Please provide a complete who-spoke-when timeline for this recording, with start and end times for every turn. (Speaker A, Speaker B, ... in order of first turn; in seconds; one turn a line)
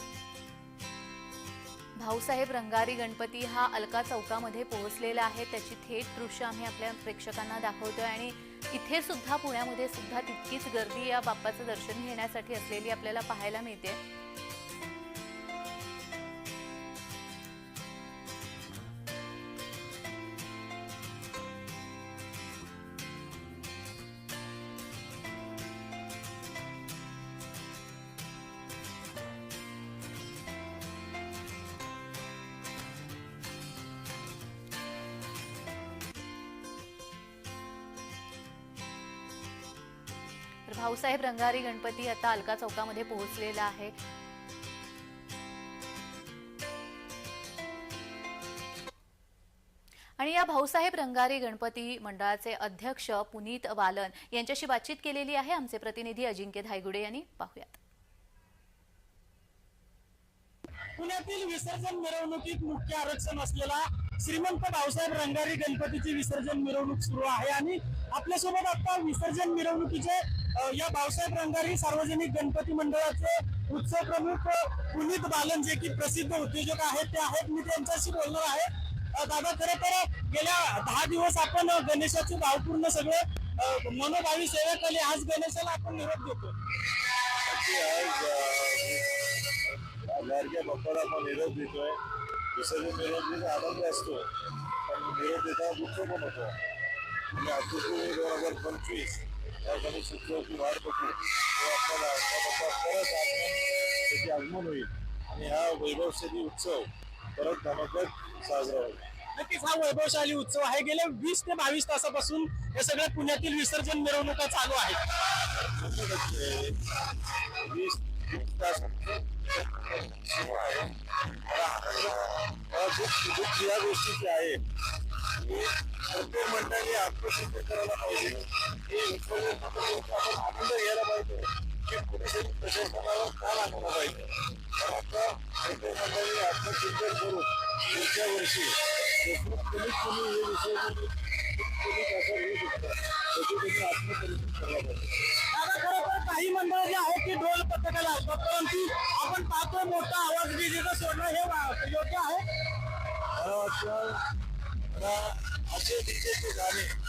Speaker A: 2.0-14.0
Speaker A: 40.7-43.9
Speaker A: 50.2-57.8
Speaker B: 61.0-86.5
Speaker C: 87.3-92.0
Speaker C: 92.5-96.6
Speaker C: 97.3-109.1
Speaker B: 109.3-115.0
Speaker C: 115.6-124.6
Speaker C: 125.2-145.2
Speaker B: 145.4-152.4
Speaker C: 153.2-154.3
Speaker C: 154.9-156.9